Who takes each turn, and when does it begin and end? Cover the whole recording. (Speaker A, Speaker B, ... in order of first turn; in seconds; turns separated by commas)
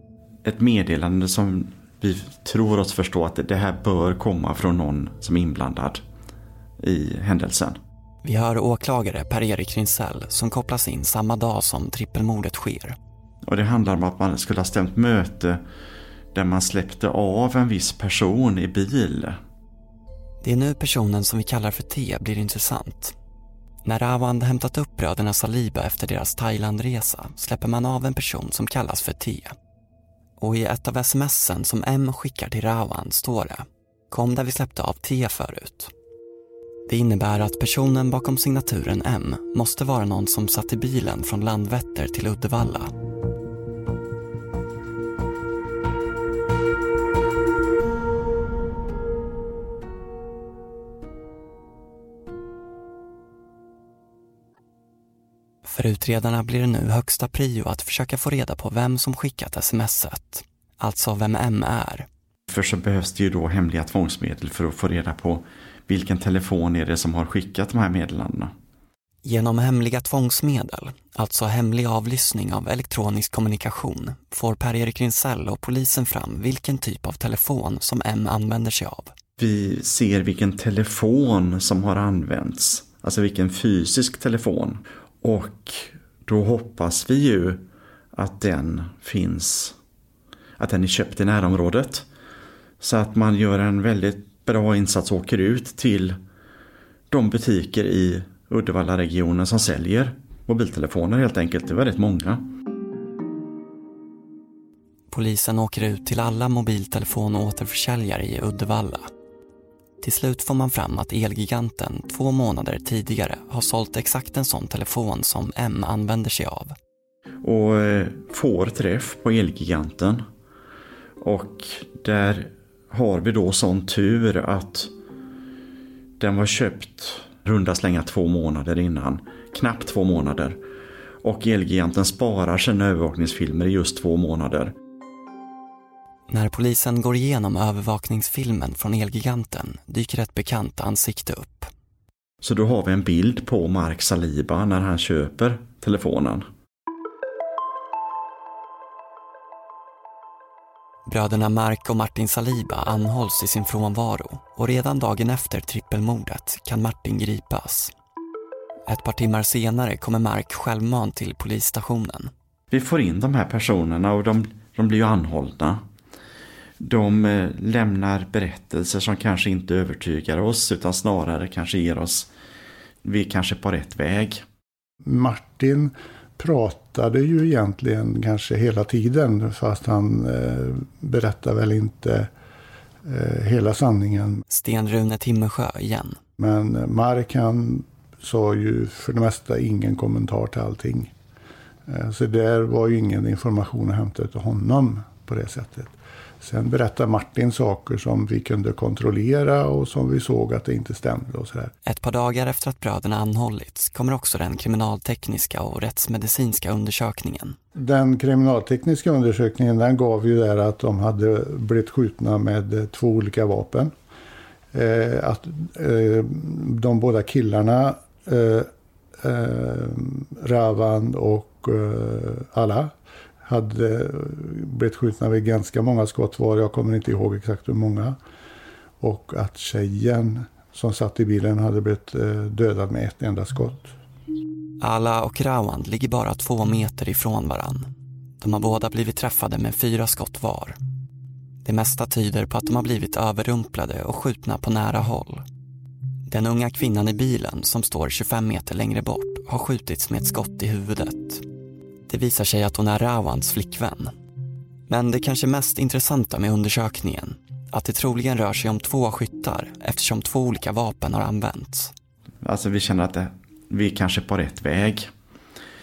Speaker A: 0.4-6.0, Speaker A: 6.8-7.8, Speaker B: 8.2-13.0, Speaker A: 13.4-15.6, Speaker A: 16.3-19.4, Speaker B: 20.4-23.1, Speaker B: 23.8-29.5, Speaker B: 30.4-35.9, Speaker B: 36.9-42.9, Speaker B: 55.6-62.1, Speaker A: 62.5-68.5, Speaker B: 69.2-79.1, Speaker A: 79.4-89.7, Speaker A: 90.6-92.0, Speaker A: 92.8-96.2, Speaker A: 97.1-102.4, Speaker B: 105.1-109.1, Speaker B: 110.0-116.7, Speaker A: 117.4-120.2, Speaker A: 121.2-124.9, Speaker A: 126.2-130.6, Speaker A: 131.2-134.7, Speaker B: 136.3-141.7, Speaker A: 142.4-146.4, Speaker B: 151.1-157.9, Speaker B: 158.9-162.3, Speaker A: 162.7-165.8, Speaker A: 166.8-172.3, Speaker A: 173.0-174.4, Speaker C: 175.0-182.3, Speaker C: 183.0-184.4, Speaker B: 184.5-186.2, Speaker C: 186.4-191.1, Speaker C: 191.9-201.7, Speaker B: 201.8-207.6, Speaker C: 207.7-213.9, Speaker C: 214.7-222.9, Speaker C: 223.4-228.2, Speaker C: 229.0-233.9, Speaker B: 234.8-237.9, Speaker B: 238.4-240.8, Speaker B: 241.6-245.4, Speaker B: 246.3-251.4, Speaker B: 252.1-254.1, Speaker B: 254.9-261.9, Speaker A: 262.4-265.1